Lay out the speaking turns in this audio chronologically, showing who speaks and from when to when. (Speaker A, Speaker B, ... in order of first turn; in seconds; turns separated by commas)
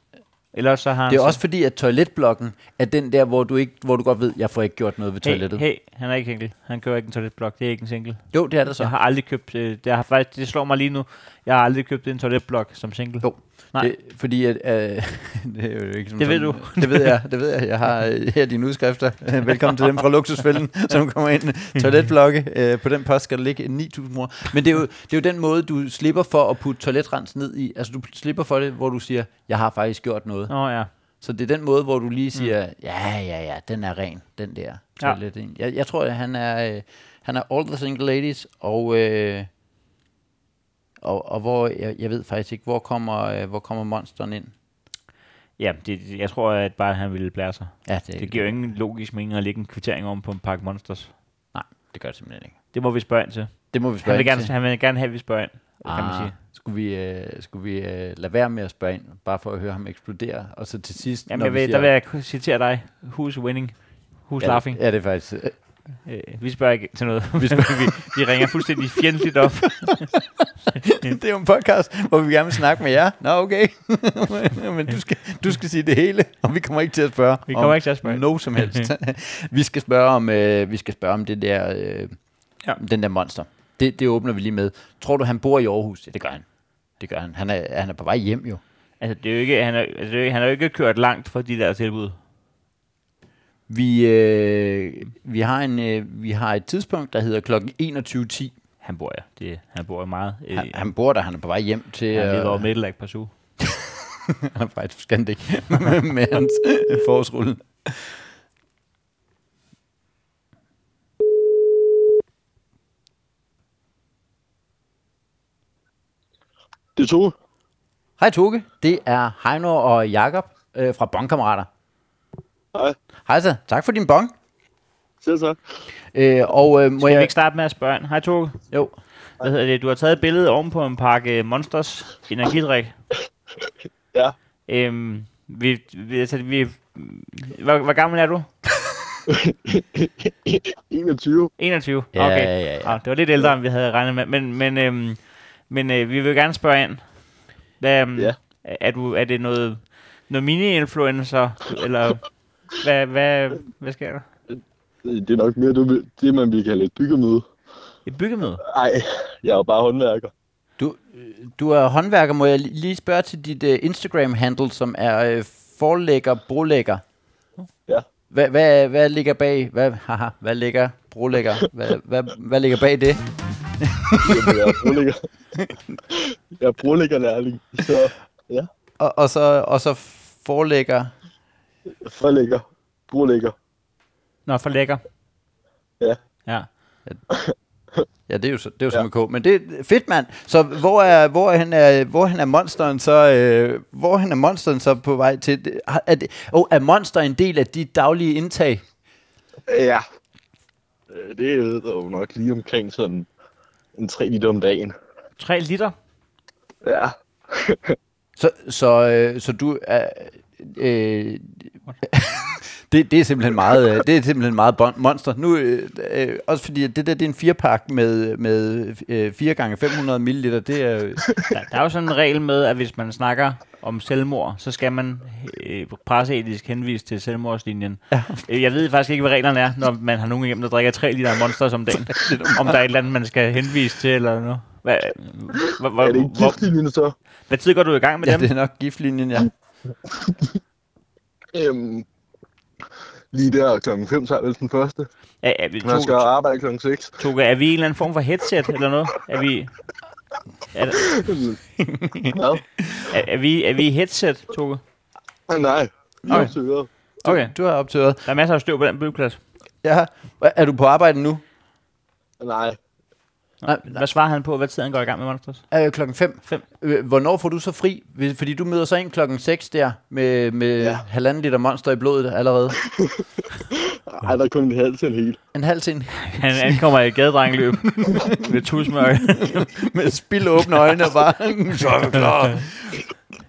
Speaker A: 0.5-1.4, Speaker B: 1.1-5.6, Speaker A: 5.2-13.9, Speaker B: 8.3-8.9, Speaker B: 13.2-30.6, Speaker A: 16.2-17.2, Speaker A: 30.5-30.9, Speaker B: 31.2-39.5, Speaker B: 41.0-44.5, Speaker A: 45.6-51.1, Speaker B: 47.9-48.5, Speaker B: 51.5-52.5, Speaker A: 52.7-56.3, Speaker B: 53.7-54.5, Speaker B: 55.8-61.9, Speaker A: 61.3-64.8, Speaker B: 64.4-65.5, Speaker A: 66.0-70.1, Speaker B: 67.4-82.1, Speaker A: 77.5-78.9, Speaker B: 82.8-86.4, Speaker B: 87.0-88.6, Speaker A: 89.0-92.2, Speaker B: 93.7-98.5, Speaker A: 98.8-100.8, Speaker B: 100.5-102.7, Speaker A: 102.1-103.3, Speaker B: 103.6-108.2, Speaker C: 117.0-117.3, Speaker B: 118.2-121.7, Speaker B: 123.2-124.3, Speaker C: 125.2-125.6, Speaker B: 126.1-127.3, Speaker A: 127.0-128.6, Speaker A: 129.4-132.9, Speaker A: 134.7-138.5, Speaker C: 139.3-141.5, Speaker A: 141.6-147.2, Speaker B: 142.1-143.0, Speaker A: 147.8-154.2, Speaker C: 155.0-157.5, Speaker A: 158.1-158.6, Speaker C: 158.6-160.3, Speaker B: 160.8-167.0, Speaker B: 168.3-173.2, Speaker B: 173.8-175.0, Speaker C: 174.2-175.2, Speaker C: 176.1-178.7, Speaker B: 179.0-181.1, Speaker C: 182.0-183.5, Speaker A: 184.4-185.0, Speaker B: 188.3-198.8, Speaker C: 199.7-200.0, Speaker C: 201.1-203.3, Speaker C: 203.9-204.9, Speaker A: 205.4-205.9, Speaker C: 206.8-207.9, Speaker B: 208.4-221.3, Speaker A: 221.5-236.6, Speaker B: 228.1-228.4, Speaker B: 231.9-232.8, Speaker C: 236.0-237.1, Speaker A: 237.5-238.5, Speaker B: 238.2-239.5, Speaker C: 241.5-242.1, Speaker C: 243.3-245.1, Speaker A: 245.4-246.2, Speaker C: 245.8-247.2, Speaker A: 247.2-249.7, Speaker A: 250.7-251.1, Speaker C: 251.1-251.6, Speaker B: 251.8-253.1, Speaker C: 252.3-252.6, Speaker A: 253.1-254.8, Speaker C: 255.5-256.9, Speaker B: 256.3-256.5, Speaker A: 257.2-257.5, Speaker B: 257.2-258.3, Speaker A: 258.2-259.4, Speaker B: 259.8-261.4, Speaker C: 262.4-262.8, Speaker A: 263.6-265.6, Speaker B: 263.6-264.0, Speaker B: 265.7-272.8, Speaker C: 270.8-271.0, Speaker C: 272.8-275.4, Speaker B: 275.5-276.8, Speaker A: 276.2-279.7, Speaker B: 277.8-283.0